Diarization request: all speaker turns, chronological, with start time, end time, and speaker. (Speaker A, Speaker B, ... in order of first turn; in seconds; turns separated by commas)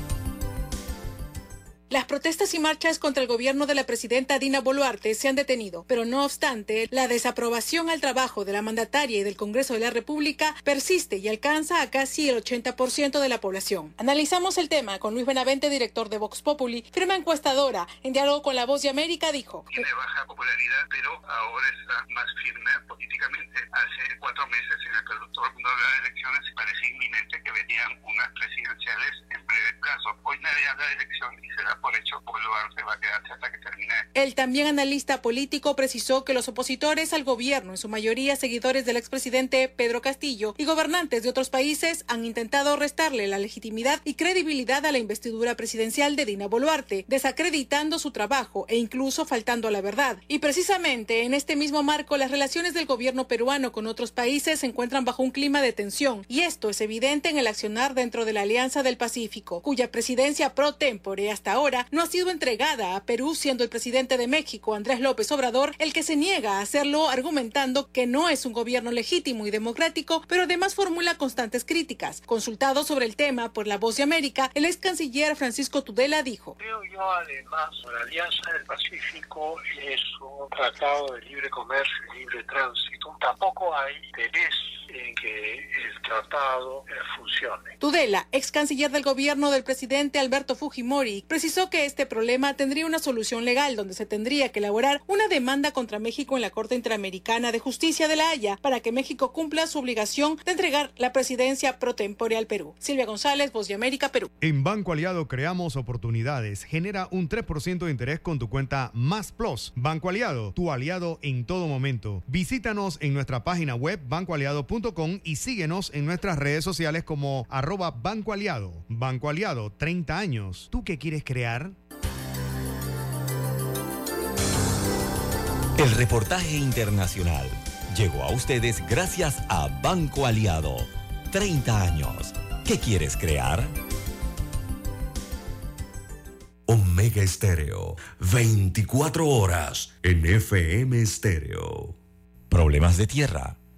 Speaker A: 1.9-19.8, Speaker B: 19.7-34.0, Speaker A: 34.1-76.6, Speaker C: 76.7-87.7, Speaker A: 87.8-104.3, Speaker D: 104.4-121.8, Speaker E: 125.8-133.8, Speaker F: 136.7-141.9, Speaker E: 142.5-143.6